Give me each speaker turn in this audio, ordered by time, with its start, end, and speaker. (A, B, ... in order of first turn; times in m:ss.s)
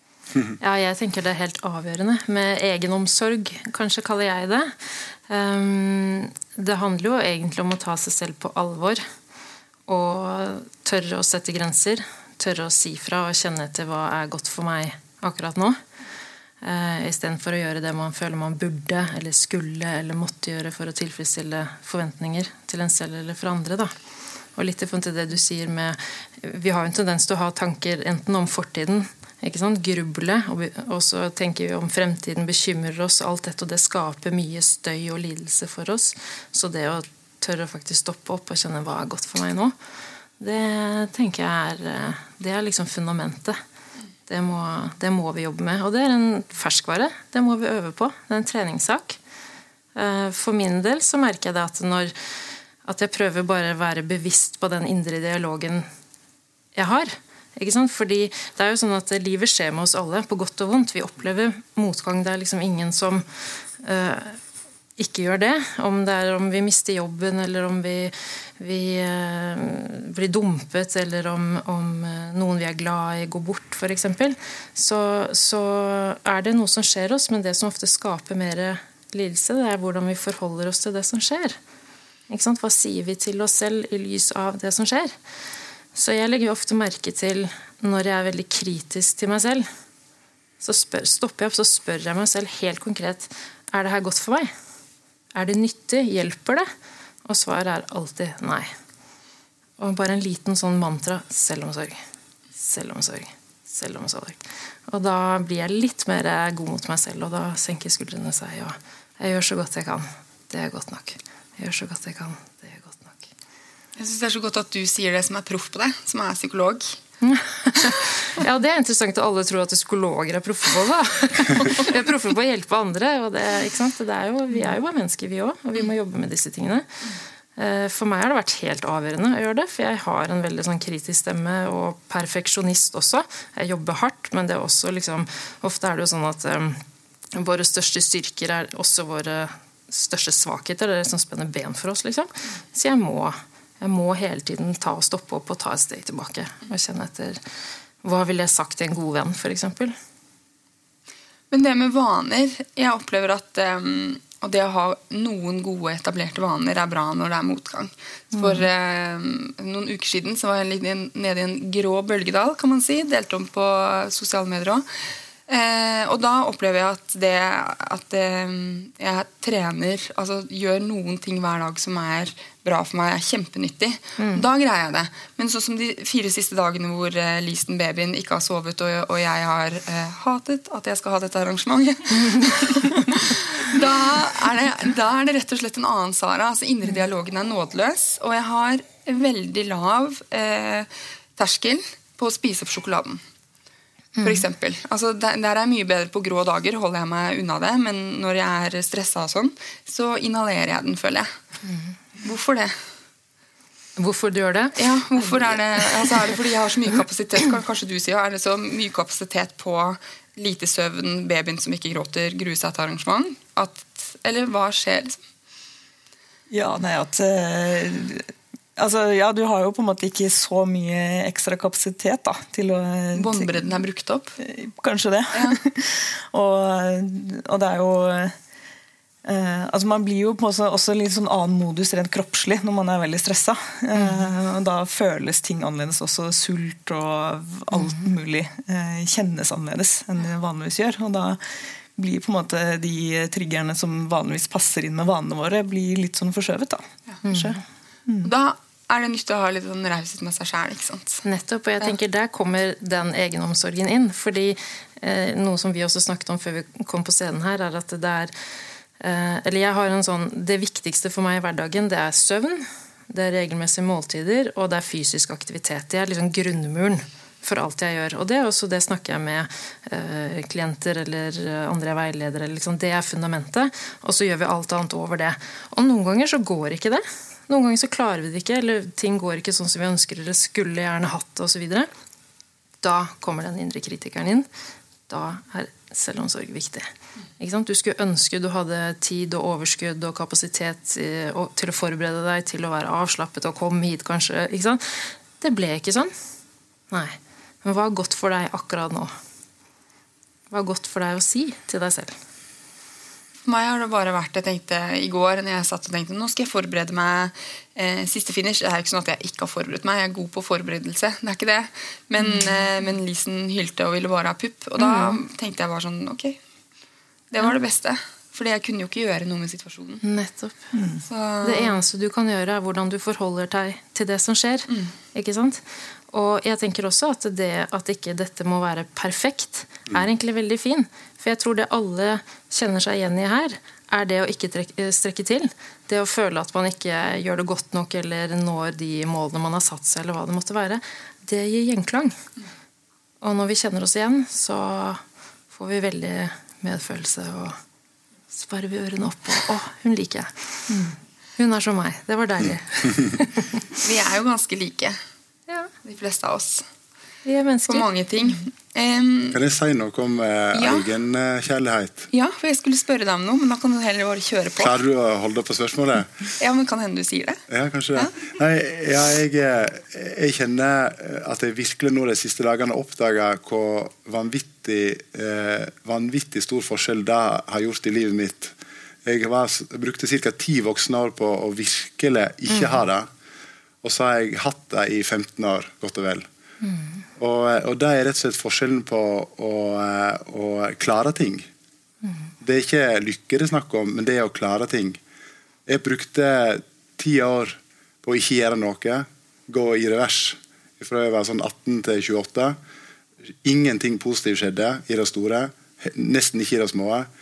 0:00.6-0:09.0 A
0:09.9-0:15.8 A
0:16.6-0:23.9 A
0:24.6-0:39.8 A
0:40.4-0:43.6 A
0:44.3-0:49.2 A
0:50.0-0:52.1 A
0:52.8-0:55.8 A
0:56.8-1:03.2 A
1:03.8-1:04.4 A
1:05.0-1:21.6 A
1:22.3-1:25.2 A
1:26.0-1:29.7 A
1:30.6-1:34.5 A
1:35.4-1:36.7 A
1:37.3-1:38.7 A
1:39.8-1:42.0 A
1:42.6-1:53.3 A
1:54.0-1:57.0 B
1:57.2-2:06.9 A
2:07.6-2:16.8 A
2:17.3-2:27.4 A
2:28.0-2:30.0 A
2:31.5-2:44.9 B
2:38.3-2:38.7 A
2:45.5-3:13.2 B
2:54.2-2:54.4 A
3:14.2-3:14.4 A
3:14.2-3:21.3 B
3:21.6-3:22.0 A
3:22.2-3:22.8 B
3:24.0-3:25.2 A
3:24.8-3:35.2 B
3:36.5-3:43.6 C
3:43.2-3:44.4 B
3:44.4-3:48.4 C
3:45.3-3:45.6 B
3:49.2-4:01.4 C
4:02.0-4:08.3 C
4:07.3-4:07.6 A
4:08.2-4:11.2 B
4:11.2-4:18.3 A
4:19.0-4:41.9 A
4:42.8-4:44.5 A
4:45.1-4:46.9 A
4:47.4-4:56.1 A
4:56.9-4:59.1 A
5:00.5-5:02.1 A
5:03.4-5:16.4 B
5:14.8-5:15.2 A
5:17.3-5:20.0 B
5:20.0-5:20.6 A
5:20.7-5:21.0 C
5:21.1-5:21.8 B
5:21.4-5:42.2 A
5:43.2-5:47.6 A
5:48.3-5:50.9 A
5:51.4-5:53.6 A
5:53.8-5:55.0 B
5:55.8-5:56.7 B
5:57.2-5:57.9 A
5:57.7-5:59.4 B
5:59.3-6:02.1 D
6:00.5-6:00.9 B
6:02.1-6:04.8 B
6:04.6-6:06.1 D
6:06.4-6:07.4 B
6:07.5-6:23.1 D
6:08.0-6:08.3 B
6:22.5-6:22.8 C
6:23.8-6:26.3 D
6:26.6-6:27.0 A
6:27.2-6:31.5 D
6:32.4-6:35.0 D
6:35.7-6:42.6 D
6:43.4-6:47.1 D